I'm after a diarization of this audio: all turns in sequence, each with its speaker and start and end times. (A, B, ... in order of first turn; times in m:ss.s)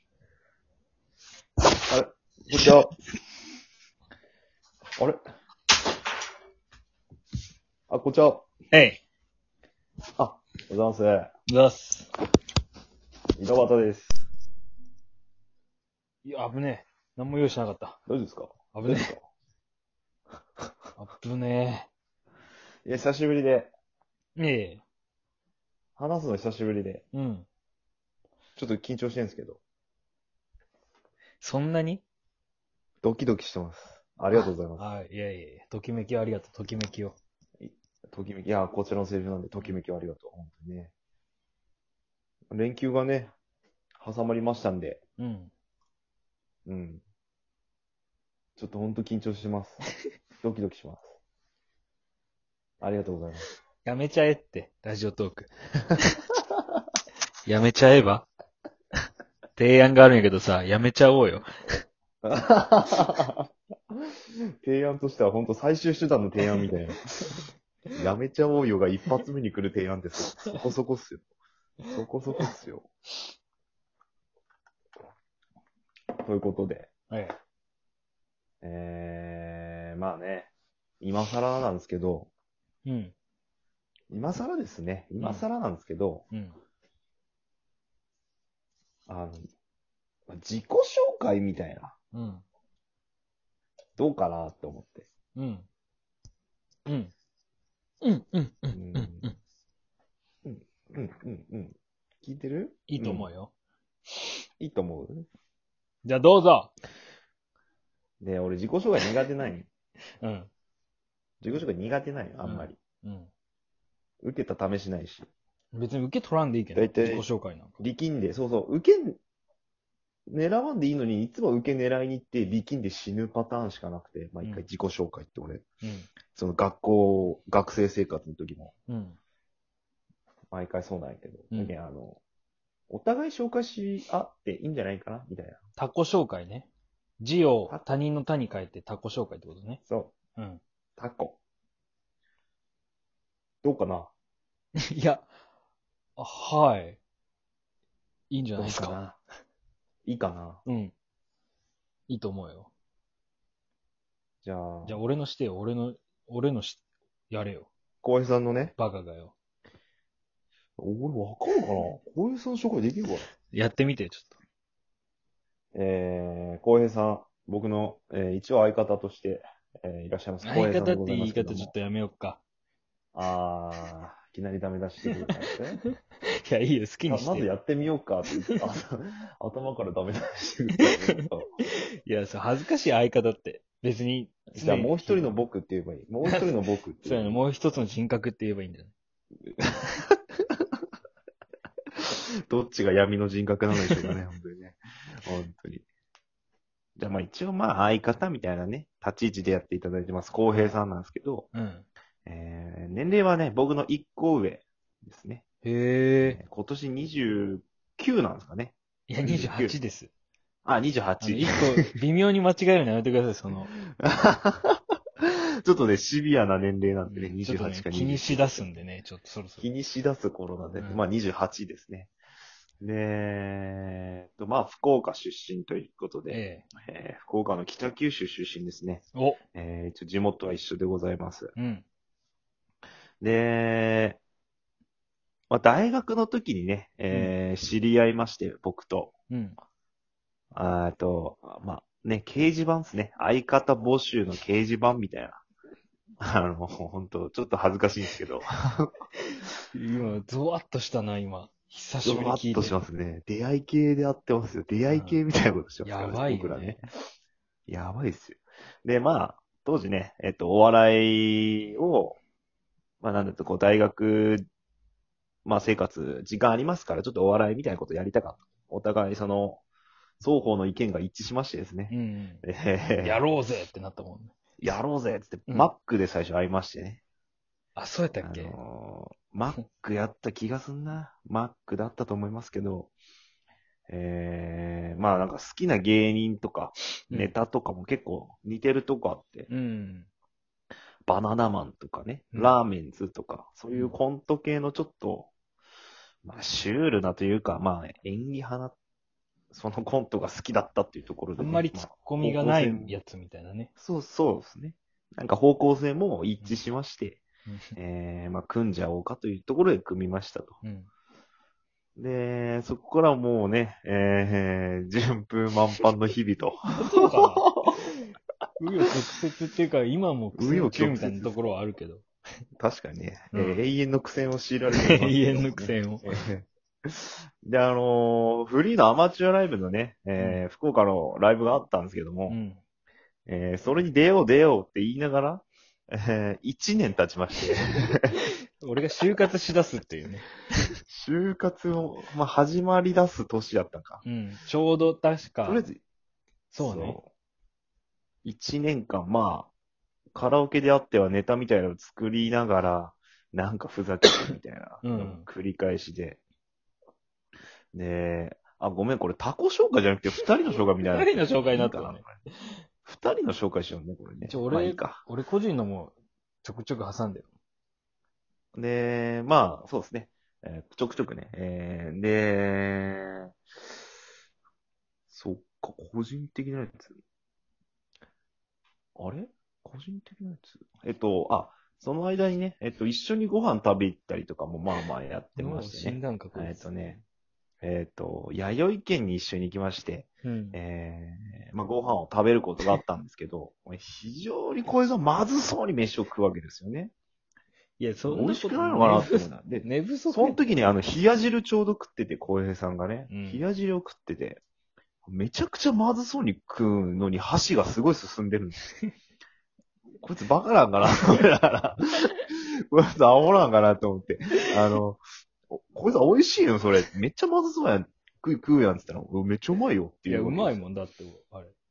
0:01.9-0:02.9 A
0:07.9-0:08.5 A
0:08.7-0:09.0 B
0:10.2-0:11.3 A
0:11.5-0:12.1 B
0:13.4-0:14.3 A
0:16.2-0:18.0 B
0:18.1-0:19.3 A
0:18.7-0:19.1 B
0:21.0-0:21.9 B
0:22.9-0:23.7 A
0:24.4-0:24.8 B
0:26.0-0:27.0 A
0:27.1-0:27.5 B
0:28.6-0:29.6 A
0:31.4-0:32.0 B
0:33.0-0:34.9 A
0:34.3-0:37.2 B
0:37.6-0:40.9 A
0:42.5-0:43.3 A
0:44.0-0:45.0 A
0:45.2-0:45.5 B
0:46.7-0:47.0 A
0:48.6-0:49.8 A
0:50.4-0:51.2 A
0:52.8-0:53.5 A
0:53.8-0:56.0 B
0:57.5-0:58.3 B
0:59.6-1:01.5 B
1:02.2-1:03.5 A
1:04.6-1:07.3 A
1:07.9-1:11.2 A
1:11.9-1:12.9 A
1:16.2-1:16.9 A
1:17.1-1:17.4 B
1:18.6-1:20.5 A
1:21.0-1:22.3 A
1:22.8-1:23.1 B
1:24.1-1:26.3 A
1:25.2-1:25.5 B
1:26.3-1:26.6 B
1:29.1-1:29.5 A
1:30.3-1:31.9 A
1:32.1-1:32.4 B
1:34.0-1:35.1 A
1:35.4-1:35.7 B
1:36.9-1:37.1 B
1:38.0-1:39.4 B
1:38.7-1:39.3 A
1:40.4-1:43.3 A
1:42.9-1:43.5 B
1:44.6-1:45.3 A
1:46.0-1:46.7 B
1:48.2-1:49.7 A
1:50.2-1:50.5 B
1:51.4-1:52.8 A
1:52.4-1:53.3 B
1:54.2-1:55.3 A
1:55.7-1:57.8 B
1:56.8-1:57.3 A
1:57.8-1:59.2 A
2:00.3-2:05.6 A
2:05.8-2:06.1 B
2:06.3-2:08.7 A
2:08.9-2:09.2 B
2:10.5-2:12.2 A
2:12.9-2:15.6 A
2:15.8-2:16.7 B
2:17.2-2:19.8 B
2:19.9-2:20.1 A
2:21.0-2:21.4 A
2:23.6-2:24.1 A
2:24.8-2:25.3 B
2:26.2-2:27.0 B
2:28.3-2:29.0 B
2:28.6-2:29.2 A
2:30.1-2:30.6 A
2:30.7-2:30.9 B
2:32.1-2:32.7 B
2:34.4-2:35.0 A
2:34.8-2:37.7 B
2:38.0-2:38.7 A
2:38.8-2:39.3 B
2:40.8-2:43.3 A
2:43.5-2:44.4 B
2:45.7-2:51.7 A
2:50.4-2:52.4 B
2:53.1-2:55.8 A
2:55.8-2:57.5 B
2:57.1-3:01.5 A
3:00.8-3:01.1 B
3:02.0-3:05.3 B
3:04.6-3:07.4 A
3:06.2-3:06.5 B
3:07.0-3:08.9 B
3:09.6-3:10.0 A
3:12.0-3:15.9 A
3:13.8-3:14.1 B
3:17.0-3:21.5 A
3:20.4-3:20.8 B
3:21.5-3:21.9 B
3:22.2-3:25.4 A
3:25.6-3:26.4 B
3:26.2-3:29.8 A
3:29.1-3:30.1 B
3:30.6-3:31.9 A
3:31.2-3:33.7 B
3:33.9-3:38.8 A
3:37.1-3:39.7 B
3:39.6-3:42.1 A
3:42.8-3:51.5 A
3:46.3-3:46.7 B
3:49.1-3:49.4 B
3:51.6-3:51.8 B
3:53.2-3:54.2 A
3:55.5-3:59.1 A
3:59.3-3:59.6 B
4:00.5-4:05.4 A
4:06.2-4:08.9 A
4:09.7-4:12.7 B
4:12.0-4:16.8 A
4:14.9-4:15.2 B
4:15.8-4:16.8 B
4:17.7-4:22.2 A
4:23.0-4:24.4 A
4:25.4-4:29.6 A
4:30.2-4:33.2 A
4:31.9-4:32.4 B
4:33.0-4:34.3 B
4:34.6-4:37.0 A
4:37.8-4:38.6 B
4:38.2-4:42.9 A
4:43.9-4:49.5 A
4:49.5-4:50.1 B
4:51.1-4:55.3 A
4:56.2-4:58.8 A
4:59.5-5:03.0 A
5:01.4-5:03.7 B
5:03.8-5:07.2 A
5:07.5-5:07.7 B
5:07.8-5:10.6 A
5:10.6-5:10.9 B
5:12.0-5:17.8 A
5:16.8-5:17.5 B
5:18.6-5:22.0 B
5:20.4-5:21.5 A
5:22.6-5:32.4 A
5:23.3-5:23.6 B
5:24.7-5:26.2 B
5:30.2-5:30.4 B
5:32.3-5:32.6 B
5:33.3-5:38.2 A
5:38.2-5:40.3 B
5:40.9-5:44.0 A
5:44.0-5:45.6 B
5:45.4-5:45.8 A
5:46.5-5:47.0 B
5:46.6-5:47.1 A
5:48.2-5:49.5 A
5:50.2-5:56.2 A
5:54.8-5:55.3 B
5:57.7-6:02.2 A
6:00.9-6:02.0 B
6:02.8-6:05.0 A
6:04.2-6:07.3 B
6:08.6-6:13.3 A
6:15.1-6:17.0 A
6:19.0-6:27.0 A
6:25.4-6:26.6 B
6:27.6-6:36.9 A
6:30.2-6:30.6 B
6:37.8-6:40.4 B
6:38.1-6:44.4 A
6:43.1-6:43.4 B
6:45.1-6:48.6 A
6:50.0-7:00.6 A
7:00.1-7:01.5 B